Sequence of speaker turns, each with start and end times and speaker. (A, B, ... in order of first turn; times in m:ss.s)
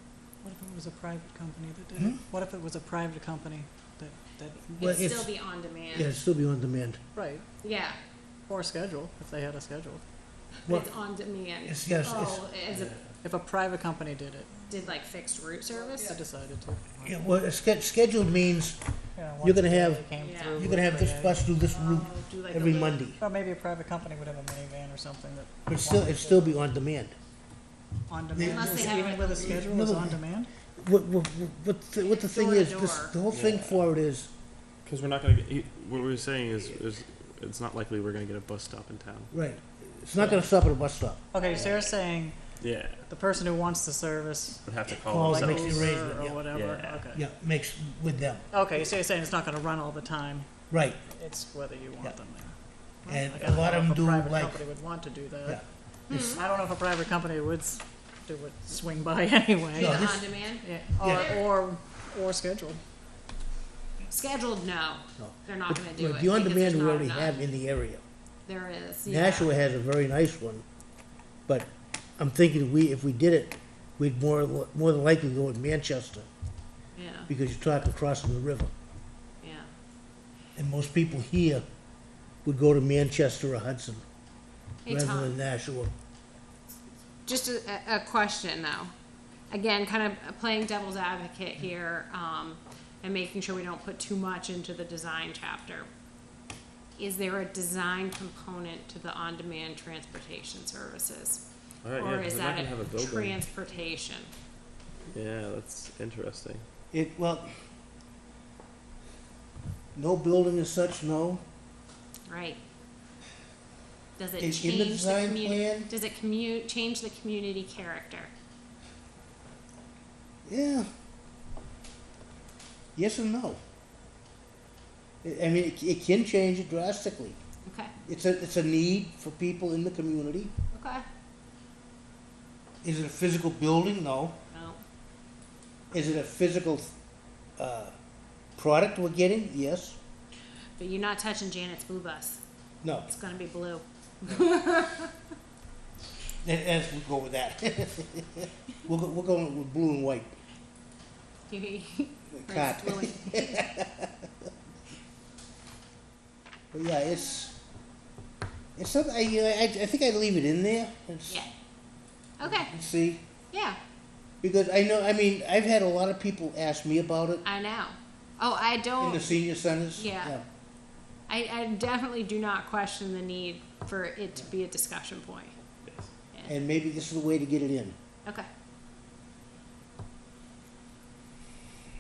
0:00.4-0:04.9 A
0:02.0-0:02.2 B
0:04.7-0:05.3 B
0:04.8-0:06.1 C
0:05.9-0:07.0 B
0:07.2-0:07.4 A
0:07.6-0:08.0 C
0:08.5-0:10.0 A
0:10.6-0:12.9 C
0:11.6-0:12.4 B
0:12.7-0:13.2 D
0:13.2-0:14.8 A
0:14.7-0:16.2 C
0:15.7-0:17.0 A
0:17.0-0:18.8 B
0:19.2-0:21.5 A
0:19.4-0:23.2 B
0:20.2-0:20.7 C
0:21.7-0:23.0 C
0:23.2-0:26.7 A
0:25.7-0:27.2 B
0:28.1-0:30.5 A
0:28.3-0:30.2 B
0:28.4-0:29.7 C
0:30.8-0:34.3 B
0:32.0-0:33.2 C
0:33.3-0:33.9 D
0:34.8-0:39.3 D
0:39.3-0:41.2 B
0:40.2-0:40.4 A
0:41.3-0:42.3 A
0:41.4-0:41.9 D
0:42.6-0:43.0 D
0:43.0-0:47.2 A
0:44.7-0:47.1 D
0:45.0-0:46.4 B
0:47.1-0:48.4 B
0:48.5-0:50.5 A
0:50.7-0:51.0 B
0:51.1-1:02.8 A
0:53.1-0:54.6 B
0:55.4-0:56.3 B
0:56.1-0:56.4 C
0:59.8-1:01.4 C
0:59.8-1:00.3 B
1:01.0-1:01.3 B
1:04.1-1:07.4 C
1:05.2-1:08.0 B
1:08.4-1:09.5 C
1:09.1-1:10.6 B
1:11.5-1:16.3 B
1:17.0-1:17.3 C
1:17.3-1:18.7 B
1:19.4-1:19.7 C
1:20.6-1:21.6 B
1:22.4-1:24.0 B
1:24.8-1:25.4 C
1:24.9-1:25.9 B
1:27.2-1:28.9 C
1:29.5-1:35.9 C
1:37.0-1:41.4 C
1:41.8-1:43.4 D
1:41.9-1:44.3 C
1:45.1-1:46.7 D
1:46.9-1:47.6 B
1:50.0-1:51.4 B
1:52.3-1:52.6 C
1:54.2-1:58.3 C
1:54.4-1:55.9 B
2:00.4-2:00.9 B
2:03.0-2:03.6 B
2:05.2-2:07.4 B
2:07.6-2:07.9 C
2:08.1-2:10.5 B
2:10.7-2:11.0 C
2:12.8-2:14.4 B
2:14.5-2:14.8 C
2:15.9-2:16.9 B
2:17.6-2:17.9 B
2:18.6-2:20.0 B
2:20.8-2:22.4 C
2:22.8-2:23.1 B
2:23.0-2:25.1 C
2:26.4-2:30.4 B
2:31.5-2:33.7 C
2:32.3-2:34.3 B
2:36.7-2:37.5 B
2:38.8-2:41.5 B
2:42.4-2:42.7 C
2:42.4-2:43.2 B
2:43.5-2:43.8 C
2:44.4-2:47.4 B
2:47.4-2:49.4 C
2:49.0-2:50.4 B
2:49.9-2:50.4 C
2:51.3-2:55.5 C
2:55.8-2:56.1 D
2:56.4-2:58.0 B